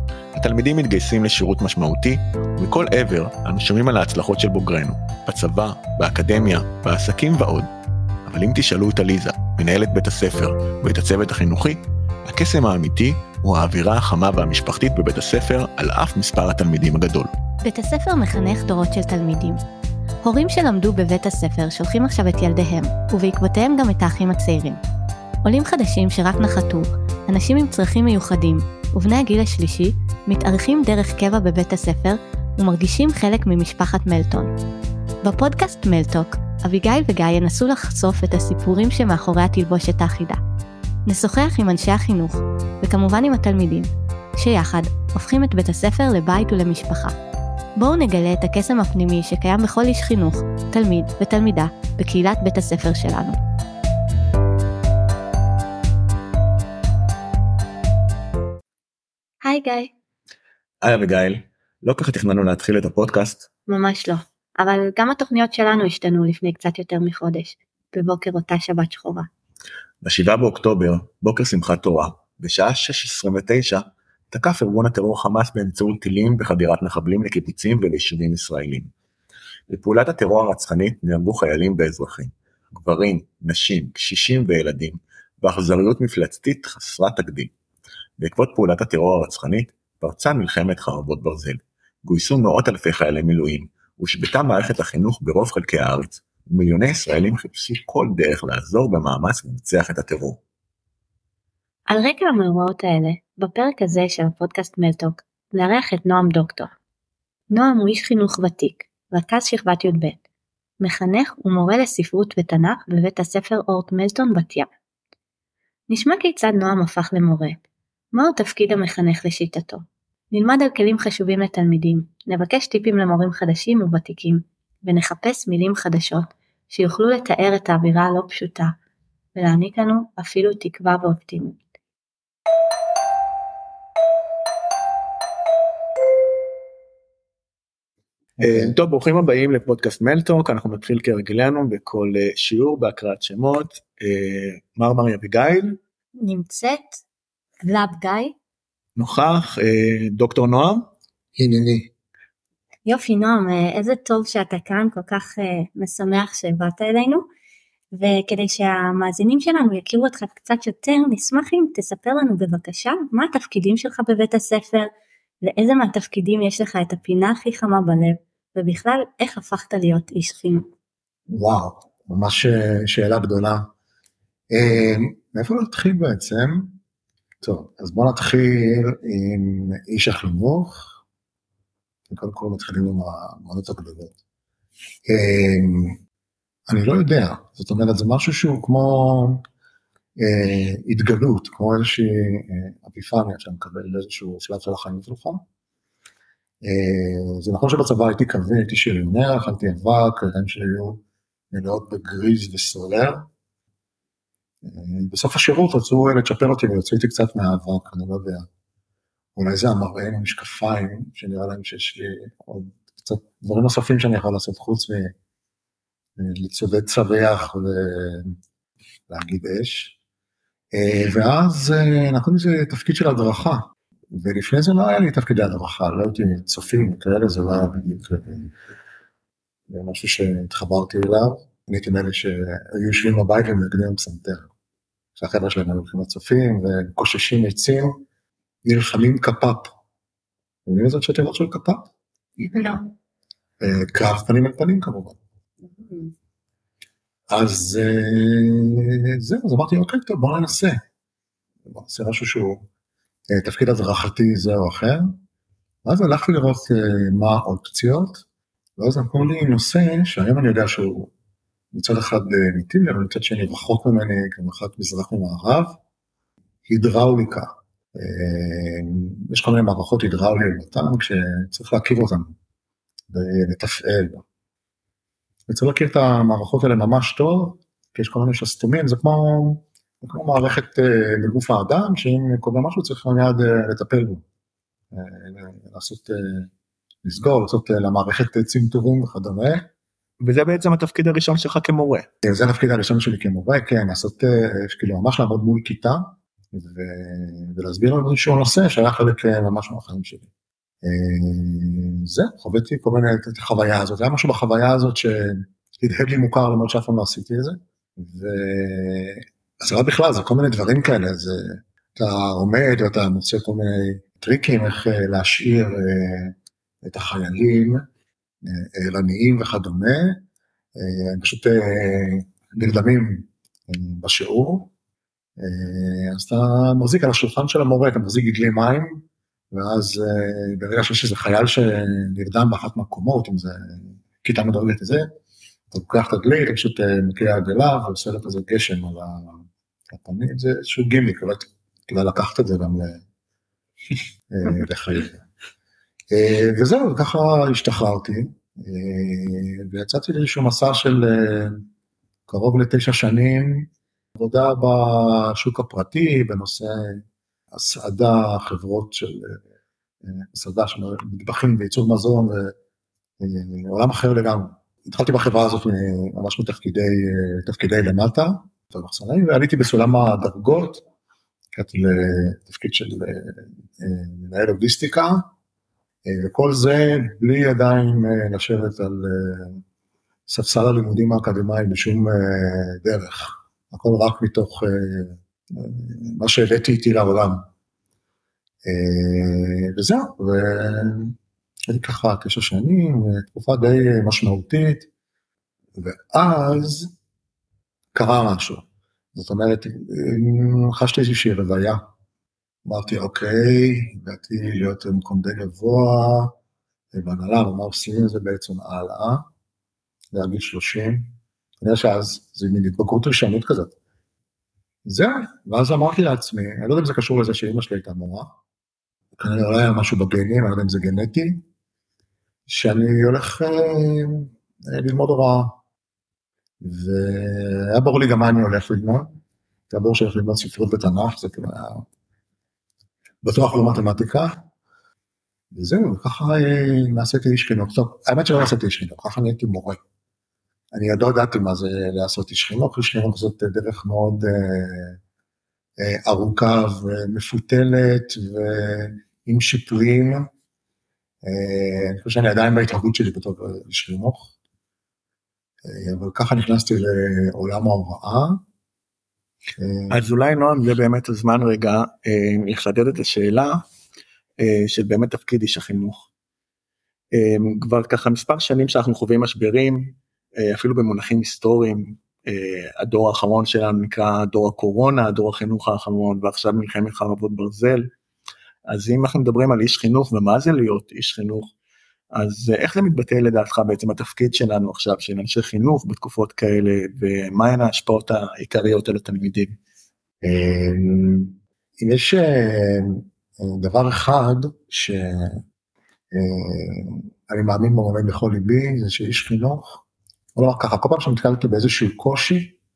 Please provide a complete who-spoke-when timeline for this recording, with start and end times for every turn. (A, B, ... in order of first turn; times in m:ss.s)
0:00.3-0:07.7 A
0:08.2-0:17.3 A
0:17.6-0:19.6 B
0:20.2-0:24.8 B
0:25.4-0:34.5 B
0:35.2-0:40.4 B
0:41.1-0:47.1 B
0:47.8-0:53.4 B
0:59.4-0:59.9 B
1:00.8-1:03.5 A
1:03.7-1:09.3 B
1:10.0-1:18.9 A
1:19.7-1:27.5 A
1:28.2-1:40.4 A
1:41.9-1:46.7 B
1:47.5-1:50.2 B
1:50.8-1:54.7 B
1:55.9-1:57.6 B
1:58.1-2:08.7 B
2:09.3-2:11.6 B
2:18.4-2:18.8 C
2:18.4-2:25.8 D
2:26.2-2:27.0 B
2:27.6-2:28.3 B
2:29.0-2:30.9 D
2:31.3-2:31.9 C
2:32.8-2:37.2 B
2:37.9-2:44.9 B
2:45.4-2:50.7 B
2:51.3-2:53.7 C
2:54.5-2:56.7 C
2:57.4-3:00.9 C
3:02.1-3:04.2 C
3:05.1-3:06.0 C
3:06.7-3:09.4 C
3:10.2-3:15.4 C
3:16.6-3:23.3 C
3:24.6-3:28.5 C
3:29.4-3:35.1 C
3:36.2-3:38.4 C
3:39.1-3:39.9 C
3:40.7-3:48.5 C
3:49.7-3:54.5 C
3:55.2-3:58.0 C
3:58.6-3:59.7 C
4:00.6-4:02.7 C
4:02.5-4:02.8 B
4:03.6-4:05.2 C
4:05.8-4:06.1 B
4:07.3-4:10.8 C
4:11.7-4:12.6 C
4:13.3-4:15.2 C
4:15.8-4:18.2 C
4:18.8-4:21.1 C
4:21.7-4:25.8 C
4:26.7-4:32.3 C
4:33.1-4:34.2 C
4:35.5-4:44.2 C
4:44.9-4:46.5 C
4:47.0-4:49.7 C
4:50.2-4:52.1 D
4:52.2-5:00.3 C
5:00.8-5:17.8 C
5:18.4-5:20.2 C
5:20.8-5:24.7 C
5:25.4-5:35.1 C
5:35.7-5:43.0 C
5:44.3-5:45.2 C
5:46.1-5:51.6 C
5:52.3-5:59.4 C
6:00.0-6:02.5 C
6:03.2-6:10.8 C
6:11.5-6:15.3 C
6:16.0-6:19.6 C
6:20.3-6:27.5 C
6:28.6-6:31.1 C
6:31.7-6:34.9 C
6:35.8-6:36.9 C
6:37.9-6:41.8 C
6:42.6-6:46.3 C
6:46.9-6:49.2 C
6:50.1-6:53.7 C
6:54.8-6:58.3 C
6:59.2-7:01.4 C
7:02.5-7:05.6 C
7:06.6-7:09.2 C
7:09.7-7:11.8 C
7:13.2-7:14.4 C
7:15.5-7:19.8 C
7:20.7-7:25.0 C
7:25.8-7:30.3 C
7:31.2-7:34.3 C
7:35.6-7:38.4 C
7:39.6-7:40.0 C
7:39.9-7:43.6 D
7:44.4-7:46.1 D
7:47.1-7:57.9 D
7:58.7-8:01.5 D
8:02.1-8:09.6 D
8:10.2-8:15.4 C
8:16.1-8:19.8 C
8:20.3-8:22.6 C